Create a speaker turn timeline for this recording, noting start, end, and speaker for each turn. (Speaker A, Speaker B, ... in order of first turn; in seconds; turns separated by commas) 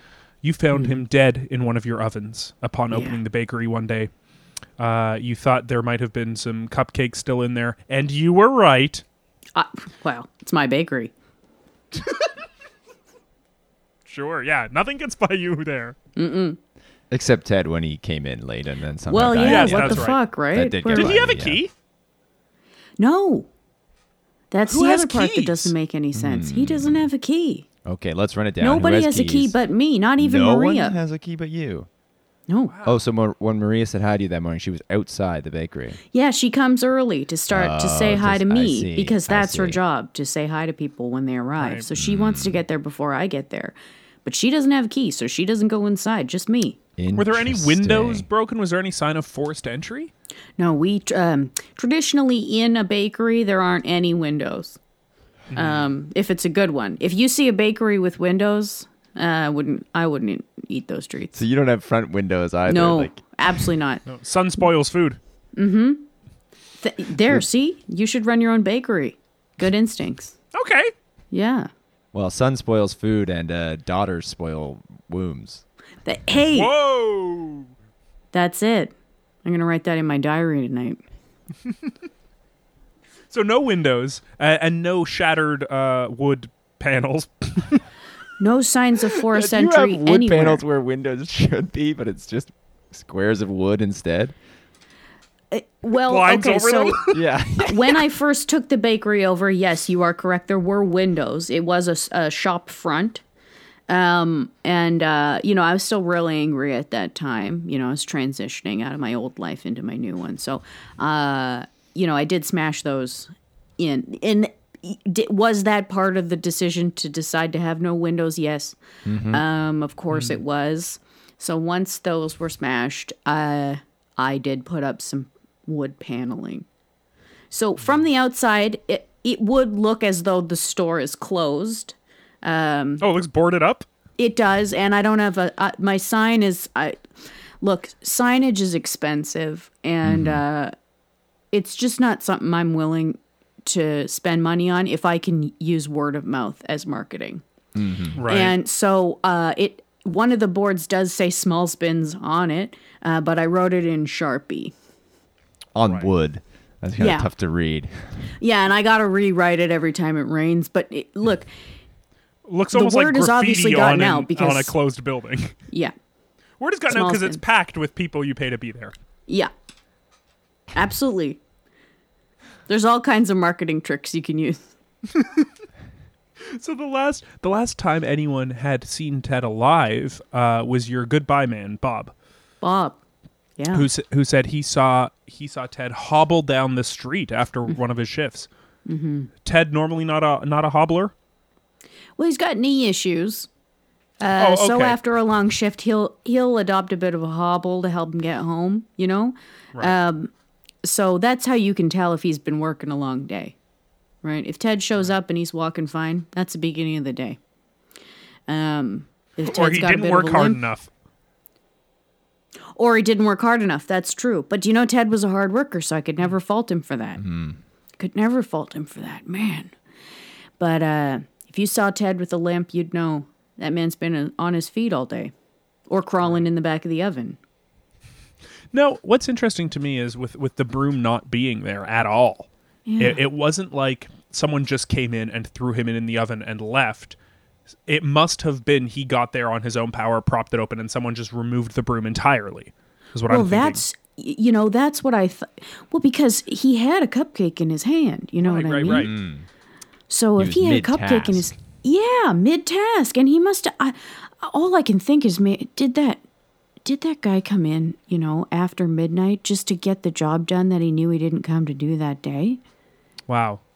Speaker A: 0.4-4.1, Speaker B: 0.7-1.0, Speaker B: 2.9-3.2, Speaker A: 4.8-9.0, Speaker B: 9.5-11.1, Speaker A: 14.1-15.9, Speaker B: 16.1-16.6, Speaker C: 17.1-21.6, Speaker B: 19.1-21.2, Speaker A: 19.4-20.2, Speaker A: 20.9-21.7, Speaker B: 23.0-23.5, Speaker B: 24.5-27.6, Speaker A: 24.7-25.7, Speaker C: 26.1-27.1, Speaker C: 27.8-29.6, Speaker B: 28.6-30.9, Speaker C: 30.2-31.9, Speaker B: 32.5-32.7, Speaker A: 32.7-33.0, Speaker C: 32.8-36.0, Speaker B: 36.1-46.8, Speaker C: 37.5-39.8, Speaker A: 41.6-41.8, Speaker C: 41.9-42.6, Speaker C: 47.0-48.2, Speaker A: 47.1-50.1, Speaker B: 50.6-54.8, Speaker A: 55.5-55.9, Speaker B: 55.5-61.4, Speaker C: 61.3-63.2, Speaker B: 62.7-64.0, Speaker A: 64.0-65.2, Speaker B: 65.5-66.0, Speaker B: 66.8-70.3, Speaker A: 70.5-70.9, Speaker B: 71.3-71.7, Speaker C: 72.1-75.6, Speaker B: 76.0-76.7, Speaker A: 76.5-77.7, Speaker B: 78.3-78.9, Speaker B: 79.4-81.0, Speaker A: 83.3-87.8, Speaker B: 88.4-90.6, Speaker C: 89.3-94.3, Speaker B: 95.5-103.2, Speaker A: 95.9-97.2, Speaker C: 97.1-97.9, Speaker B: 103.9-118.8, Speaker C: 119.0-119.4, Speaker B: 119.3-126.7, Speaker A: 120.1-120.4, Speaker B: 127.5-133.0, Speaker A: 133.0-133.8, Speaker B: 134.2-137.0, Speaker B: 137.6-140.7, Speaker C: 140.0-140.4, Speaker B: 141.5-147.4, Speaker C: 147.7-148.2, Speaker A: 148.2-148.5, Speaker B: 148.2-154.7, Speaker C: 155.7-158.1, Speaker B: 157.0-157.3, Speaker B: 158.4-161.5, Speaker A: 162.4-165.5, Speaker B: 162.7-164.7, Speaker A: 166.6-168.9, Speaker B: 166.9-167.4, Speaker B: 170.7-171.4, Speaker B: 172.7-174.6, Speaker A: 175.1-175.5, Speaker A: 176.4-182.1, Speaker B: 182.6-183.0, Speaker B: 183.6-183.9, Speaker A: 183.7-188.5, Speaker B: 188.8-189.3, Speaker A: 189.4-191.1, Speaker B: 192.2-193.5, Speaker B: 194.2-200.3, Speaker A: 194.4-195.0, Speaker B: 200.8-203.5, Speaker B: 204.2-207.4, Speaker B: 208.5-210.6, Speaker A: 209.4-210.9, Speaker B: 212.7-217.2, Speaker C: 217.2-217.6, Speaker B: 218.0-219.7, Speaker B: 220.6-225.3, Speaker B: 225.9-227.4, Speaker A: 228.7-237.2, Speaker B: 232.9-233.2, Speaker A: 237.9-243.8, Speaker B: 243.3-249.1, Speaker A: 248.4-249.1, Speaker C: 248.8-249.4, Speaker B: 250.1-256.2, Speaker C: 250.4-251.5, Speaker B: 256.8-262.6, Speaker A: 263.3-263.6